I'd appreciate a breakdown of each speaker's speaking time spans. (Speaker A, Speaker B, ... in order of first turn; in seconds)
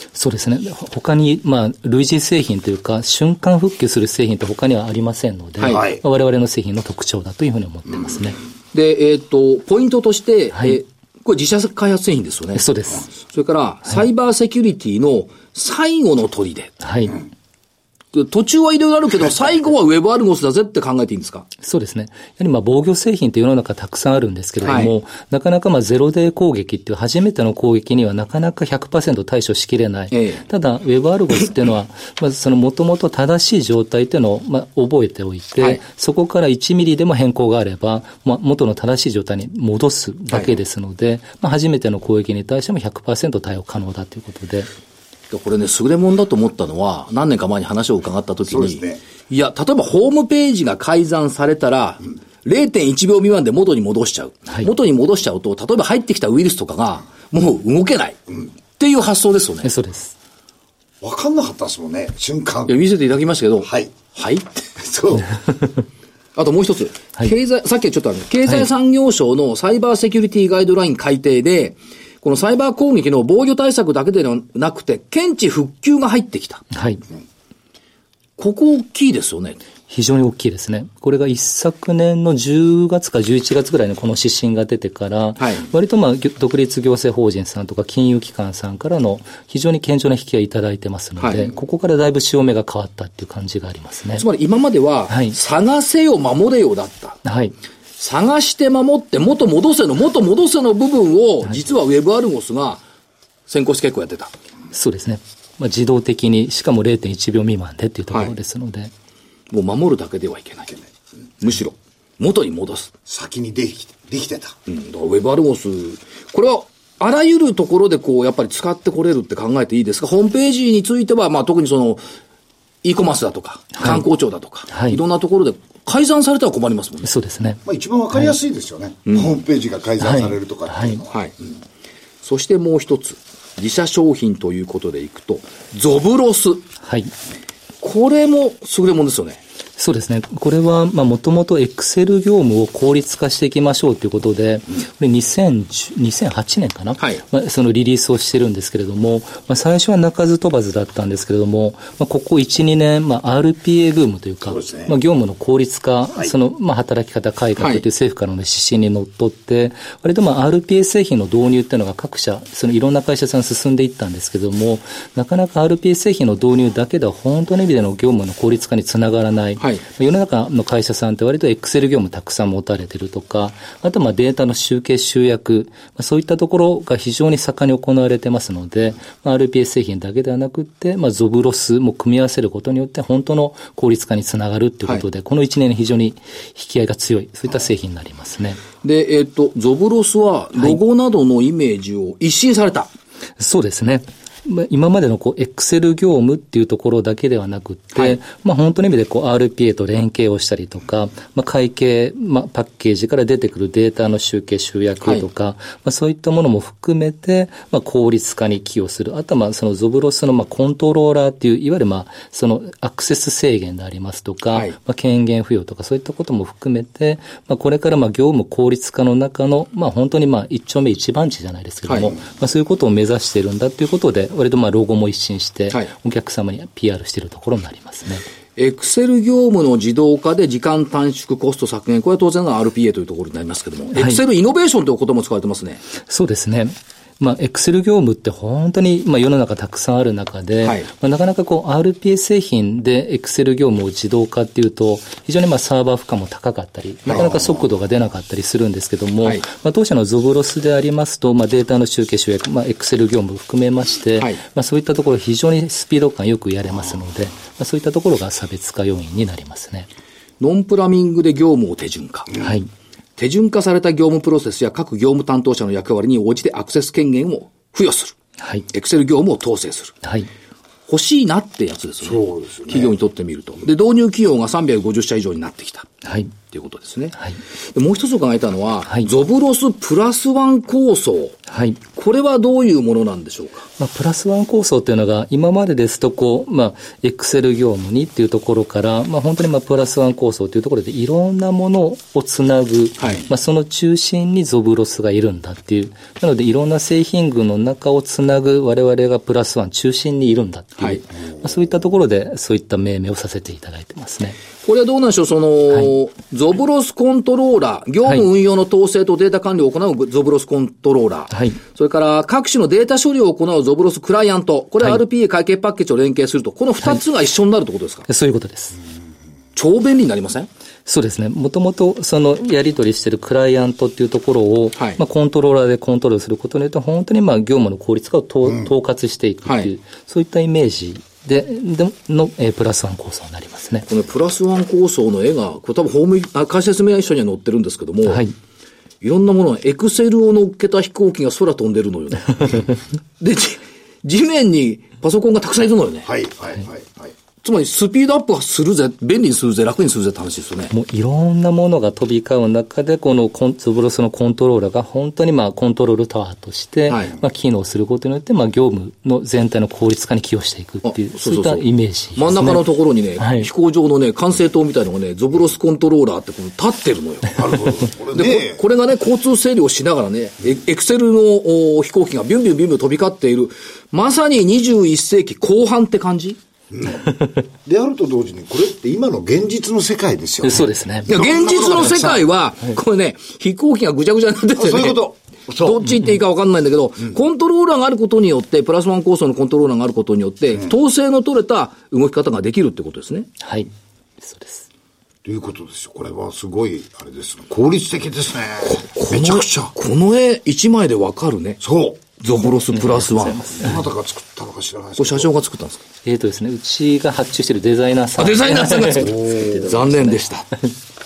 Speaker A: 0.1-8.4, 12.5-13.1, 16.8-17.2, 21.6-44.7, 59.6-60.1, 76.7-77.0, 79.9-94.2, 95.1-95.3, 97.2-97.5, 104.7-108.9, 123.8-124.0, 124.7-125.0, 127.0-127.6, 130.0-131.0, 136.8-137.1, 139.8-188.6, 193.4-228.2, 233.9-234.2, 236.0-259.9, 262.4-262.7, 268.4-268.6, 276.0-276.3, 281.5-281.8, 283.8-304.4, 311.3-311.6, 318.1-318.8, 320.9-333.9, 338.1-338.3, 350.7-363.5, 380.4-381.1, 393.4-394.6, 402.7-403.8, 406.0-410.2
Speaker B: 5.6-5.8, 8.7-12.6, 13.2-16.7, 18.1-21.5, 24.6-24.9, 30.1-30.4, 40.3-40.6, 45.3-58.2, 58.8-59.7, 62.7-64.6, 66.3-76.6, 78.4-79.6, 85.4-85.7, 91.2-91.5, 94.2-97.2, 98.0-102.8, 103.5-104.3, 109.5-110.8, 111.4-112.9, 114.7-122.0, 122.8-127.1, 129.1-129.3, 132.2-136.7, 137.8-139.4, 157.6-157.8, 169.6-169.8, 188.8-192.9, 221.9-222.1, 228.6-235.8, 240.6-240.9, 247.1-247.3, 260.4-262.3, 263.2-268.1, 268.7-269.9, 270.9-275.9, 276.5-277.1, 277.7-281.4, 281.9-283.7, 293.0-293.3, 304.6-318.1, 319.5-320.5, 329.4-329.7, 333.9-338.2, 339.0-346.1, 347.4-350.7, 356.9-357.1, 360.8-361.6, 362.1-367.6, 368.1-376.4, 381.1-385.0, 385.6-393.3, 398.6-401.6, 402.2-403.6, 405.0-405.8, 408.2-410.5
Speaker C: 5.7-6.0, 48.5-49.0, 61.0-62.8, 63.6-63.9, 64.8-65.3, 113.0-114.6, 127.6-131.1, 154.4-154.9, 247.1-247.6, 272.0-272.9, 346.0-347.1, 367.3-368.6, 376.7-377.1, 377.6-382.3, 384.6-385.9, 395.2-399.7, 401.6-402.1, 403.6-405.3, 409.0-409.8